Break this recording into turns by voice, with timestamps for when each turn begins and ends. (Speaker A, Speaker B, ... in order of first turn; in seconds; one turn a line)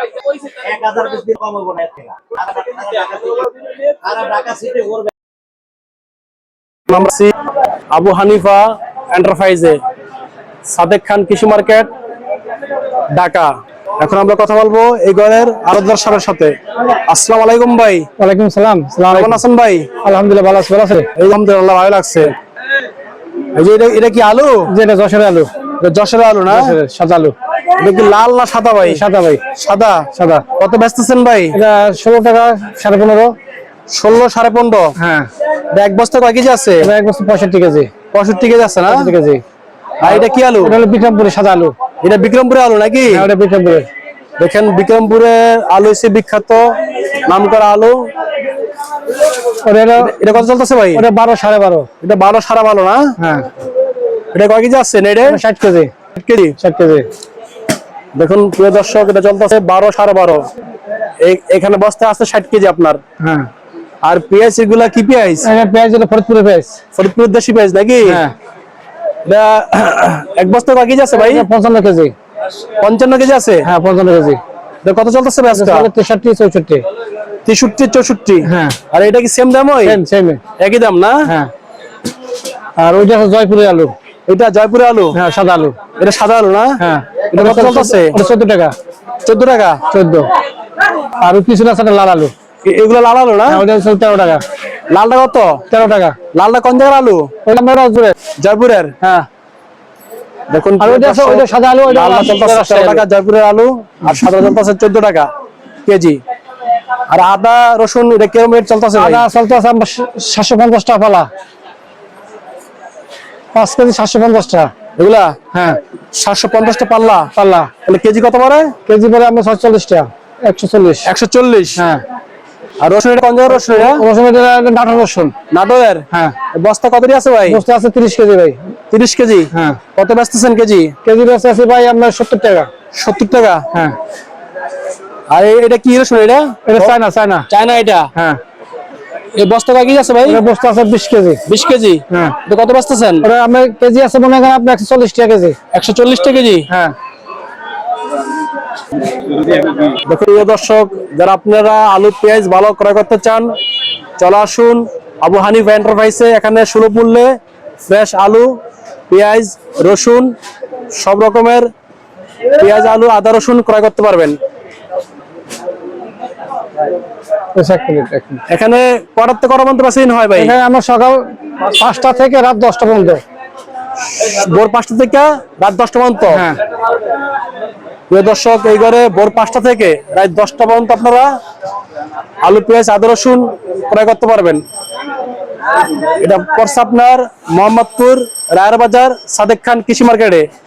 Speaker A: 0.3-3.5
Speaker A: 4.0-5.1
Speaker B: 6.9-7.3
Speaker B: 7.9-9.8
Speaker B: 10.7-11.9
Speaker B: 13.1-18.1
Speaker C: 18.2-19.4
Speaker B: 19.1-19.9
Speaker C: 20.0-21.1
Speaker B: 21.1-22.3
Speaker B: 23.5-24.7
Speaker C: 24.7-25.5
Speaker B: 25.8-26.7
Speaker C: 26.5-27.3
Speaker B: 27.8-31.6
Speaker C: 28.8-29.4
Speaker C: 30.1-30.4
Speaker C: 31.5-33.3
Speaker B: 33.9-34.9
Speaker C: 35.0-35.3
Speaker B: 35.7-36.9
Speaker C: 36.8-37.9
Speaker B: 38.1-39.1
Speaker C: 38.9-39.4
Speaker B: 40.0-40.8
Speaker C: 40.0-41.7
Speaker B: 42.0-43.2
Speaker C: 43.1-43.9
Speaker B: 44.4-48.0
Speaker C: 49.6-50.1
Speaker B: 50.0-51.0
Speaker C: 50.9-51.9
Speaker B: 52.0-53.1
Speaker C: 53.2-53.5
Speaker B: 54.3-55.4
Speaker C: 55.2-55.9
Speaker B: 56.1-56.5
Speaker C: 56.6-57.1
Speaker B: 58.1-60.5
Speaker B: 61.2-63.0
Speaker C: 63.2-63.5
Speaker B: 64.0-65.5
Speaker C: 65.4-66.8
Speaker B: 66.9-68.2
Speaker C: 68.0-68.3
Speaker B: 69.2-71.5
Speaker C: 71.1-72.1
Speaker B: 72.8-73.6
Speaker C: 73.6-74.4
Speaker B: 74.8-75.9
Speaker C: 75.5-76.8
Speaker B: 77.4-80.0
Speaker C: 78.4-78.8
Speaker C: 79.8-80.4
Speaker B: 80.6-81.2
Speaker C: 81.3-81.5
Speaker C: 82.8-83.9
Speaker B: 84.3-85.2
Speaker C: 85.1-85.8
Speaker B: 86.0-86.7
Speaker C: 86.8-88.7
Speaker B: 87.3-88.2
Speaker B: 89.2-89.8
Speaker C: 89.9-90.3
Speaker C: 91.2-92.3
Speaker B: 92.6-93.6
Speaker C: 93.5-94.4
Speaker B: 94.9-95.6
Speaker C: 95.7-96.2
Speaker B: 96.3-97.3
Speaker C: 97.4-98.2
Speaker B: 98.4-99.1
Speaker B: 100.5-105.3
Speaker C: 100.8-103.0
Speaker B: 105.8-106.2
Speaker B: 107.1-109.2
Speaker C: 109.0-111.3
Speaker C: 113.5-114.7
Speaker B: 115.0-115.4
Speaker C: 115.5-115.8
Speaker B: 116.1-117.3
Speaker C: 117.3-117.7
Speaker B: 117.8-118.7
Speaker C: 118.9-121.1
Speaker B: 121.0-121.8
Speaker C: 121.8-122.0
Speaker B: 122.8-124.0
Speaker C: 123.5-125.3
Speaker B: 125.5-127.6
Speaker C: 127.5-128.7
Speaker B: 128.9-130.9
Speaker C: 129.5-129.8
Speaker C: 131.0-132.7
Speaker B: 132.9-133.7
Speaker B: 135.3-137.0
Speaker C: 136.7-137.5
Speaker B: 137.5-138.1
Speaker C: 138.1-138.4
Speaker B: 139.3-140.4
Speaker C: 140.2-141.4
Speaker B: 141.4-143.3
Speaker C: 142.1-142.4
Speaker C: 143.2-145.6
Speaker B: 145.7-146.6
Speaker C: 146.7-146.9
Speaker B: 149.5-153.5
Speaker B: 154.2-157.3
Speaker B: 157.9-158.5
Speaker B: 159.1-160.3
Speaker B: 160.9-161.7
Speaker B: 162.5-164.4
Speaker C: 167.5-168.4
Speaker B: 168.5-170.6
Speaker C: 170.3-173.2
Speaker B: 174.0-176.4
Speaker C: 176.3-176.6
Speaker B: 178.1-181.3
Speaker B: 182.4-184.6
Speaker B: 185.8-190.5